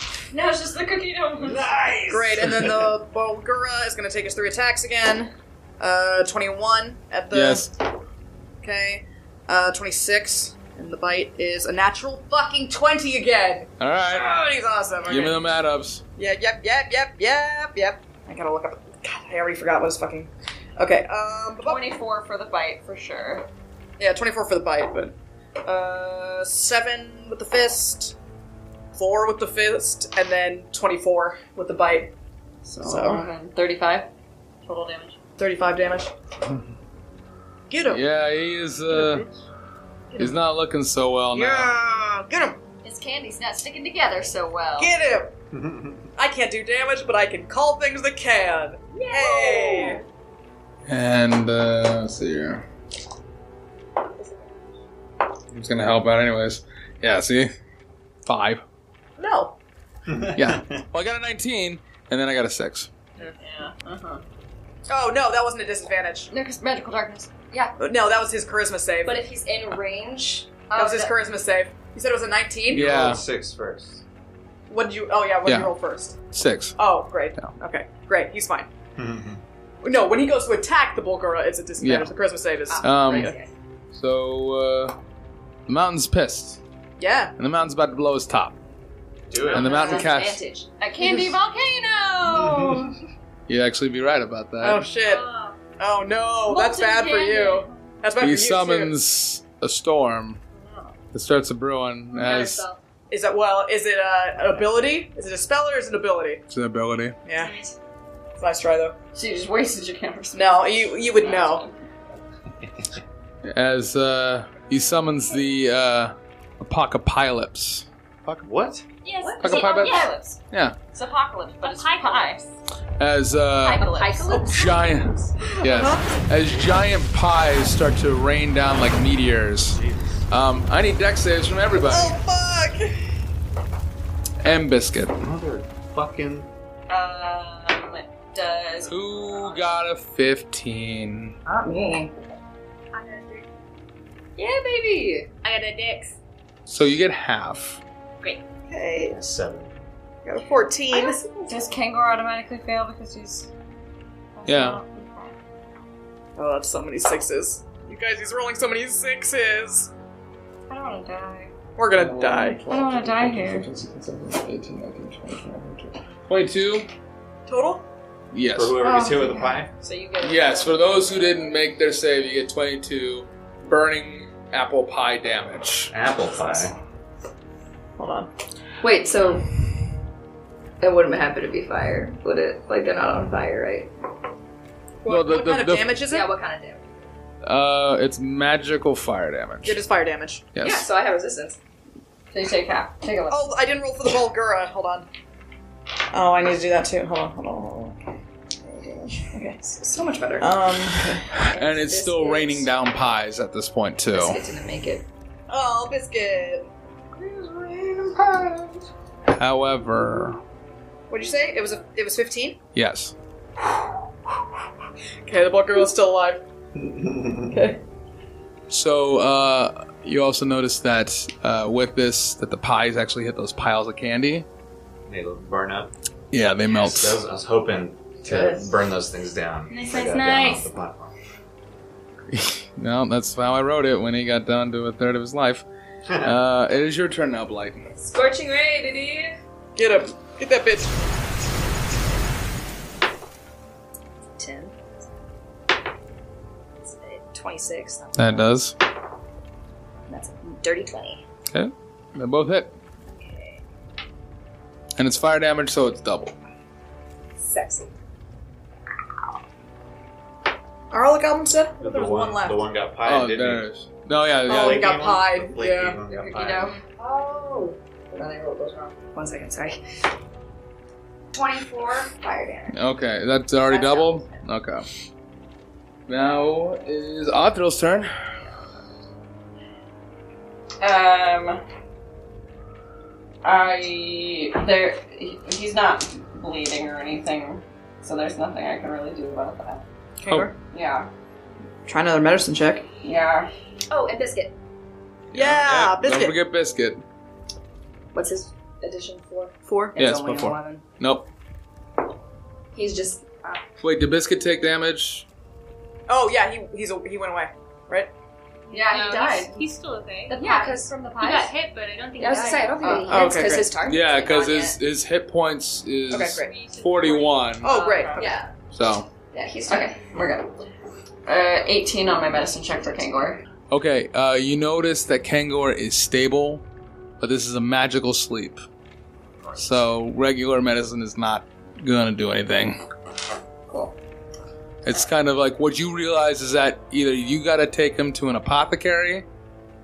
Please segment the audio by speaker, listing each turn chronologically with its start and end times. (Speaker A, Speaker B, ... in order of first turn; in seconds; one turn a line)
Speaker A: 0.3-1.7
Speaker B: 1.4-3.0
Speaker C: 2.1-7.7
Speaker D: 7.3-7.7
Speaker C: 8.6-15.5
Speaker D: 13.8-14.4
Speaker D: 15.1-16.0
Speaker C: 16.2-21.9
Speaker A: 21.6-23.5
Speaker C: 24.0-28.2
Speaker C: 28.9-32.1
Speaker A: 32.7-34.1
Speaker C: 32.8-33.3
Speaker A: 34.6-35.2
Speaker C: 35.4-36.1
Speaker C: 37.7-38.0
Speaker D: 37.9-39.3
Speaker C: 38.9-39.3
Speaker D: 40.2-41.7
Speaker C: 41.3-42.6
Speaker A: 42.8-44.9
Speaker C: 44.8-45.3
Speaker B: 45.5-46.1
Speaker C: 46.2-50.0
Speaker E: 49.1-49.9
Speaker D: 50.9-52.6
Speaker D: 55.5-57.5
Speaker D: 58.3-58.6
Speaker C: 59.2-59.5
Speaker B: 60.1-60.8
Speaker D: 60.4-62.9
Speaker A: 63.4-64.2
Speaker C: 64.9-66.3
Speaker A: 66.3-67.8
Speaker C: 67.8-69.2
Speaker F: 69.0-71.1
Speaker A: 70.7-71.1
Speaker C: 70.7-73.0
Speaker B: 72.7-74.0
Speaker D: 72.7-73.2
Speaker C: 74.7-76.2
Speaker D: 75.5-75.7
Speaker D: 76.3-76.8
Speaker C: 76.8-78.7
Speaker B: 79.0-79.4
Speaker C: 79.8-83.3
Speaker D: 81.8-82.1
Speaker F: 82.7-83.5
Speaker D: 82.8-83.3
Speaker D: 83.9-85.0
Speaker D: 85.7-86.6
Speaker C: 87.0-87.3
Speaker D: 87.4-88.5
Speaker B: 89.3-89.8
Speaker D: 89.5-90.4
Speaker F: 89.6-90.7
Speaker A: 89.6-93.0
Speaker C: 91.0-91.3
Speaker B: 92.3-92.9
Speaker D: 93.5-94.8
Speaker C: 94.6-95.2
Speaker E: 95.0-95.6
Speaker C: 95.8-99.0
Speaker A: 96.5-97.7
Speaker D: 98.2-100.4
Speaker D: 101.1-102.6
Speaker E: 102.1-102.8
Speaker C: 103.1-106.4
Speaker D: 106.5-107.2
Speaker C: 107.3-107.5
Speaker E: 107.4-107.7
Speaker C: 108.4-109.0
Speaker A: 109.1-111.8
Speaker C: 110.3-111.7
Speaker D: 113.5-117.8
Speaker B: 118.3-118.8
Speaker E: 119.0-120.1
Speaker F: 119.2-120.1
Speaker D: 119.4-120.8
Speaker A: 119.5-120.4
Speaker A: 120.9-122.4
Speaker E: 121.6-122.5
Speaker D: 123.0-123.9
Speaker A: 123.6-124.4
Speaker F: 123.8-124.9
Speaker D: 124.4-132.2
Speaker C: 125.6-126.1
Speaker B: 129.7-130.2
Speaker C: 131.8-133.0
Speaker D: 134.4-135.2
Speaker B: 135.2-136.5
Speaker A: 136.9-139.5
Speaker D: 138.9-141.4
Speaker F: 141.5-142.1
Speaker E: 142.9-143.4
Speaker A: 144.4-145.2
Speaker E: 145.4-146.2
Speaker D: 146.7-147.8
Speaker B: 149.1-149.7
Speaker C: 150.2-151.2
Speaker A: 151.0-153.5
Speaker A: 154.4-155.3
Speaker D: 154.5-154.8
Speaker C: 156.4-159.9
Speaker A: 160.7-161.5
Speaker C: 161.8-162.6
Speaker D: 161.9-166.9
Speaker A: 162.7-163.7
Speaker C: 167.5-167.8
Speaker D: 168.3-168.8
Speaker B: 168.5-169.7
Speaker C: 169.0-169.4
Speaker A: 169.8-171.4
Speaker D: 170.2-175.9
Speaker B: 175.9-176.8
Speaker C: 178.0-178.3
Speaker F: 178.8-179.4
Speaker F: 180.8-183.9
Speaker C: 185.0-186.3
Speaker D: 185.1-186.0
Speaker F: 186.1-187.1
Speaker D: 187.4-189.8
Speaker C: 189.6-190.5
Speaker D: 190.6-190.9
Speaker F: 190.6-191.6
Speaker A: 192.3-193.6
Speaker C: 193.3-195.1
Speaker C: 196.1-198.0
Speaker F: 198.7-200.6
Speaker C: 199.3-199.6
Speaker C: 200.4-201.3
Speaker D: 201.4-204.4
Speaker F: 201.4-202.7
Speaker F: 204.1-205.1
Speaker C: 205.5-208.6
Speaker D: 209.3-210.4
Speaker C: 211.1-212.6
Speaker D: 212.8-213.1
Speaker C: 215.3-216.4
Speaker B: 216.8-217.6
Speaker C: 217.5-217.8
Speaker D: 218.7-224.5
Speaker B: 225.1-225.9
Speaker D: 226.3-227.2
Speaker B: 226.7-231.1
Speaker F: 228.2-228.7
Speaker E: 229.7-230.7
Speaker D: 232.3-235.7
Speaker B: 236.1-236.4
Speaker D: 236.2-237.8
Speaker F: 237.9-239.3
Speaker C: 239.8-240.9
Speaker F: 244.4-245.0
Speaker F: 246.8-248.5
Speaker D: 248.2-248.7
Speaker F: 250.1-251.2
Speaker D: 251.5-252.7
Speaker F: 253.1-253.6
Speaker D: 255.0-256.3
Speaker F: 257.4-257.9
Speaker C: 260.9-262.7
Speaker B: 261.8-263.7
Speaker D: 263.0-265.1
Speaker B: 264.4-266.7
Speaker C: 264.5-266.0
Speaker A: 266.1-266.8
Speaker F: 266.9-269.8
Speaker F: 271.3-272.8
Speaker D: 272.7-274.9
Speaker F: 273.7-274.4
Speaker D: 276.1-278.1
Speaker A: 280.8-281.6
Speaker A: 283.4-289.8
Speaker C: 290.2-290.5
Speaker A: 290.7-291.1
Speaker C: 291.9-292.9
Speaker A: 293.0-293.5
Speaker F: 293.9-294.6
Speaker D: 295.3-297.0
Speaker C: 295.3-296.4
Speaker F: 298.1-300.8
Speaker C: 299.7-300.0
Speaker D: 300.0-301.3
Speaker F: 302.7-303.6
Speaker D: 303.8-305.2
Speaker C: 306.1-308.1
Speaker E: 308.7-313.0
Speaker A: 308.7-309.5
Speaker F: 308.7-309.5
Speaker F: 310.3-311.5
Speaker A: 310.6-311.4
Speaker F: 312.2-314.8
Speaker A: 312.8-313.1
Speaker C: 313.1-313.8
Speaker D: 313.8-317.7
Speaker F: 316.1-316.5
Speaker E: 316.3-317.6
Speaker C: 317.6-318.4
Speaker A: 317.6-318.3
Speaker F: 318.1-318.5
Speaker D: 318.7-319.1
Speaker F: 319.3-320.0
Speaker A: 319.7-320.5
Speaker A: 321.3-323.4
Speaker D: 323.7-326.6
Speaker D: 327.2-328.6
Speaker D: 329.6-332.8
Speaker A: 333.7-333.9
Speaker D: 334.9-339.2